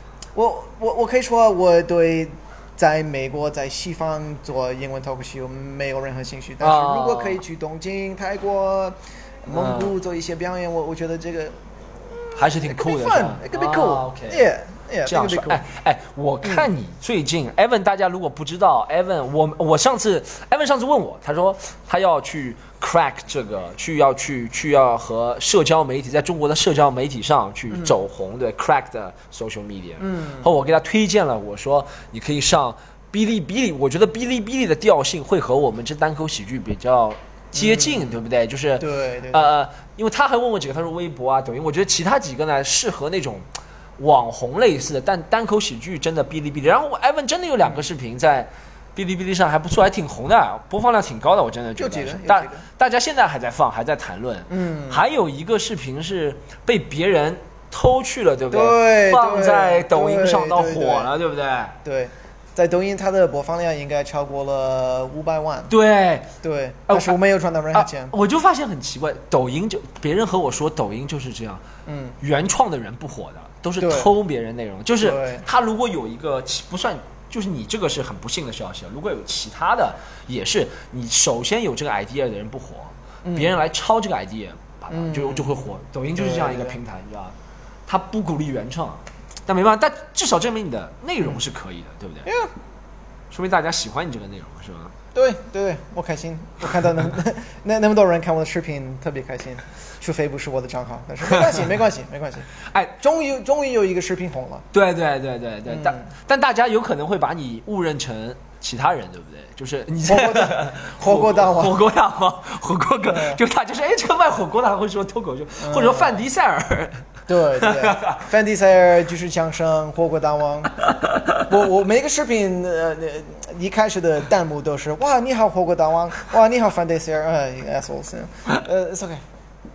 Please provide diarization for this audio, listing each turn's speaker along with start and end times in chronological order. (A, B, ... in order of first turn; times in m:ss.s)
0:00.4-0:15.6 A
0:06.6-0:07.4 B
0:09.5-0:09.9 B
0:12.4-0:14.5 B
0:15.1-0:43.4 B
0:30.0-0:30.5 A
0:37.5-0:38.2 A
0:38.8-0:39.5 A
0:44.0-1:01.8 B
0:51.8-0:52.6 A
0:54.5-0:55.0 A
0:58.5-1:01.1 A
1:01.8-1:05.7 A
1:05.7-1:06.3 B
1:06.4-1:08.1 A
1:06.9-1:07.2 B
1:07.7-1:11.6 B
1:11.9-1:12.2 A
1:12.2-1:27.4 B
1:13.8-1:14.1 A
1:15.0-1:15.4 A
1:23.2-1:23.5 A
1:24.9-1:25.5 A
1:26.2-1:26.8 A
1:27.9-1:32.3 B
1:32.2-1:32.5 A
1:33.3-1:34.9 B
1:35.1-1:42.5 A
1:41.3-1:41.7 B
1:42.6-1:43.0 B
1:43.0-1:44.6 A
1:44.7-1:58.2 B
1:45.7-1:46.1 A
1:50.1-1:51.8 A
1:53.1-1:53.4 A
1:55.6-1:56.2 A
1:57.3-2:00.7 A
2:01.0-2:01.4 B
2:01.5-2:09.2 A